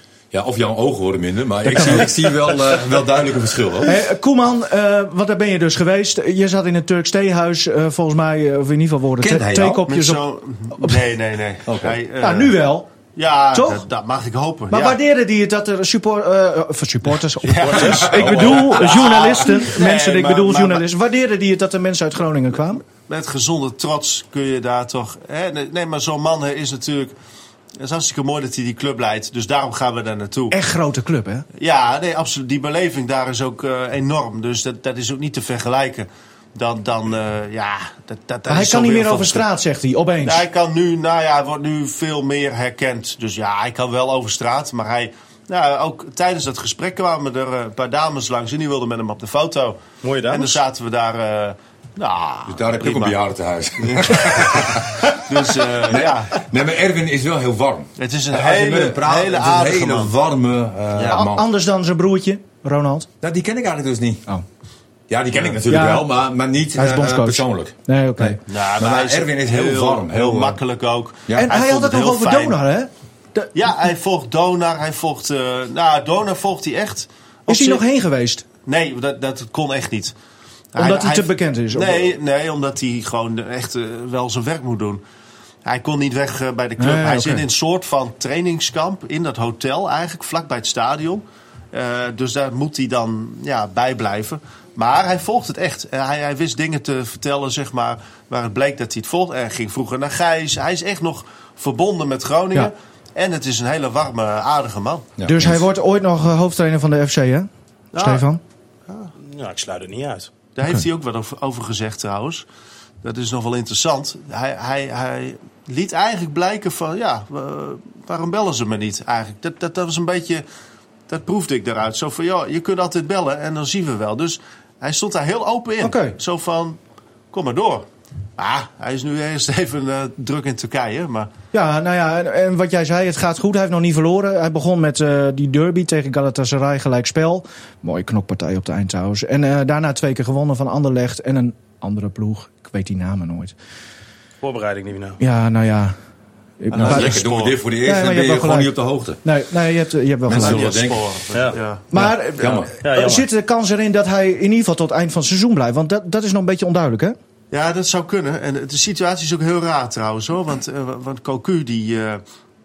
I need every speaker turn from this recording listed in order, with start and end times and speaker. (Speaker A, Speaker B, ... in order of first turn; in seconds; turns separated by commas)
Speaker A: 0.3-4.0, Speaker B: 1.6-2.1, Speaker B: 3.8-10.2, Speaker A: 9.2-9.8, Speaker C: 9.9-12.6, Speaker A: 11.7-12.0, Speaker B: 12.2-12.9, Speaker C: 13.2-15.0, Speaker B: 13.5-13.8, Speaker B: 14.7-22.8, Speaker C: 17.4-20.9, Speaker A: 17.6-19.3, Speaker C: 22.9-27.1, Speaker C: 27.8-30.6, Speaker B: 30.5-31.5, Speaker C: 31.6-39.5, Speaker B: 38.5-40.4, Speaker C: 40.2-53.2, Speaker D: 50.0-50.6, Speaker A: 52.5-61.4, Speaker C: 53.8-56.4, Speaker C: 58.0-60.1, Speaker C: 61.0-61.2, Speaker B: 61.1-63.1, Speaker A: 63.2-64.2, Speaker A: 65.1-70.6, Speaker B: 65.7-66.1, Speaker B: 66.8-68.4, Speaker C: 68.5-72.6, Speaker B: 71.4-73.5, Speaker C: 73.5-77.8, Speaker B: 77.5-78.5, Speaker C: 78.7-80.1, Speaker C: 80.7-85.0, Speaker B: 80.8-82.1, Speaker C: 85.7-105.1, Speaker B: 86.8-87.5, Speaker A: 105.2-105.7, Speaker B: 105.3-108.4, Speaker C: 107.9-108.2, Speaker D: 109.2-110.3, Speaker C: 110.6-112.5, Speaker C: 113.0-120.4, Speaker C: 121.1-126.8, Speaker B: 125.8-126.2, Speaker C: 127.3-127.9, Speaker C: 128.4-131.3, Speaker B: 131.5-143.5, Speaker D: 144.4-145.2, Speaker B: 145.2-145.9, Speaker B: 146.6-147.2, Speaker A: 146.7-149.2, Speaker C: 146.8-147.6, Speaker B: 147.8-148.7, Speaker B: 149.2-150.7, Speaker A: 150.3-151.1, Speaker C: 150.3-151.8, Speaker B: 151.9-157.2, Speaker A: 151.9-152.7, Speaker D: 152.8-153.3, Speaker C: 157.5-162.2